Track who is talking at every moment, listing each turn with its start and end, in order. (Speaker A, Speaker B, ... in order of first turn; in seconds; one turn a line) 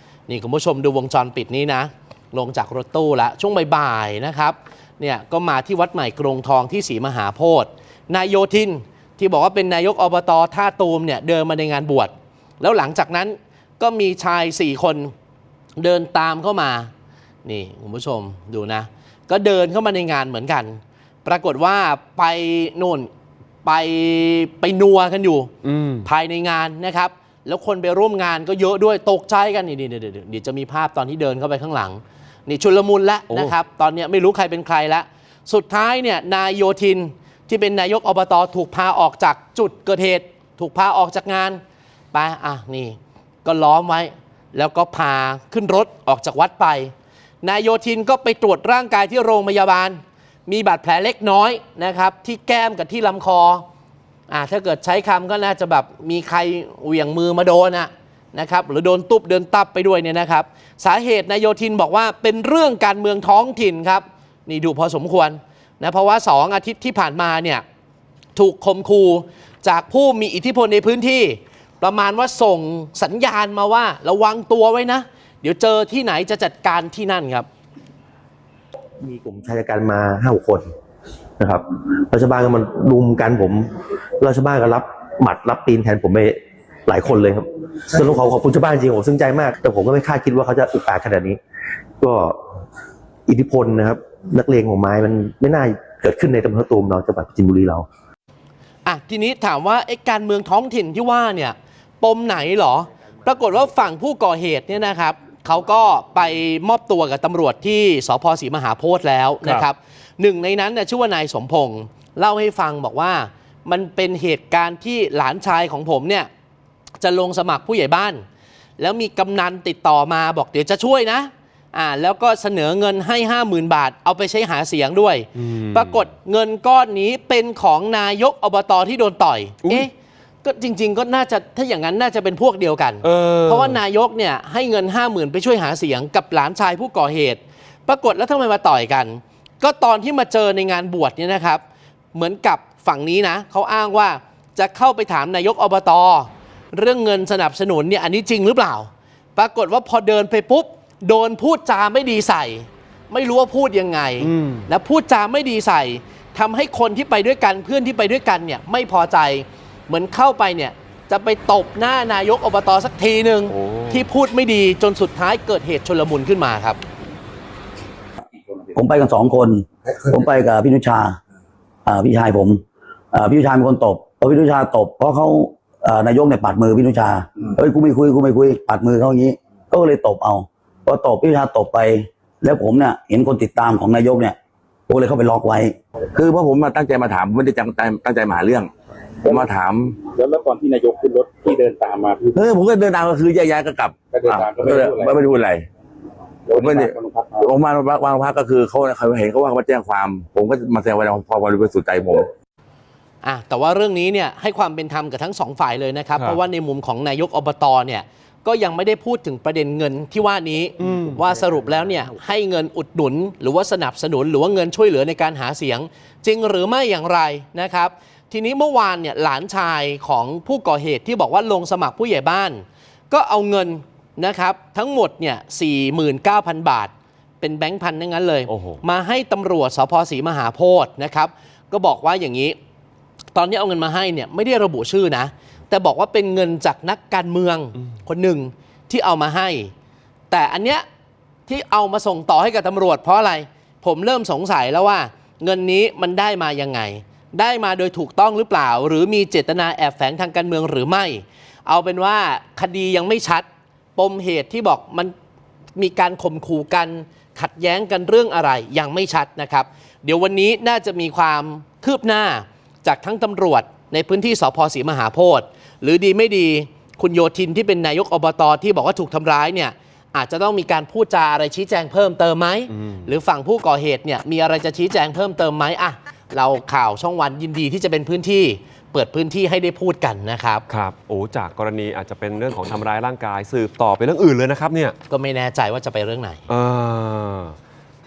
Speaker A: 0.3-15.1
Speaker A: 15.8-16.9
Speaker A: 17.4-23.1
Speaker A: 23.6-25.5
Speaker B: 25.6-26.1
Speaker A: 26.0-41.6
Speaker A: 42.1-53.6
Speaker A: 54.3-67.6
Speaker A: 68.4-77.5
Speaker C: 79.0-80.7
Speaker C: 81.4-91.4
Speaker C: 92.0-92.4
Speaker C: 93.3-97.9
Speaker A: 98.8-116.3
Speaker A: 117.0-118.2
Speaker A: 118.8-129.9
Speaker B: 125.4-125.9
Speaker A: 130.4-141.6
Speaker B: 133.0-133.8
Speaker A: 142.1-166.8
Speaker B: 154.2-154.7
Speaker B: 163.5-164.1
Speaker D: 168.8-171.2
Speaker D: 171.9-172.6
Speaker D: 173.1-184.4
Speaker D: 184.9-185.8
Speaker E: 186.1-188.7
Speaker E: 189.3-190.0
Speaker F: 190.0-192.3
Speaker E: 192.3-195.7
Speaker F: 194.1-195.2
Speaker F: 196.5-197.5
Speaker E: 196.6-202.3
Speaker A: 203.2-232.6
Speaker B: 228.5-228.8
Speaker A: 233.3-239.7
Speaker A: 240.3-240.8
Speaker A: 241.5-255.1
Speaker A: 255.8-280.6
Speaker B: 272.8-273.1
Speaker B: 280.7-285.0
Speaker A: 285.1-286.4
Speaker B: 286.5-287.6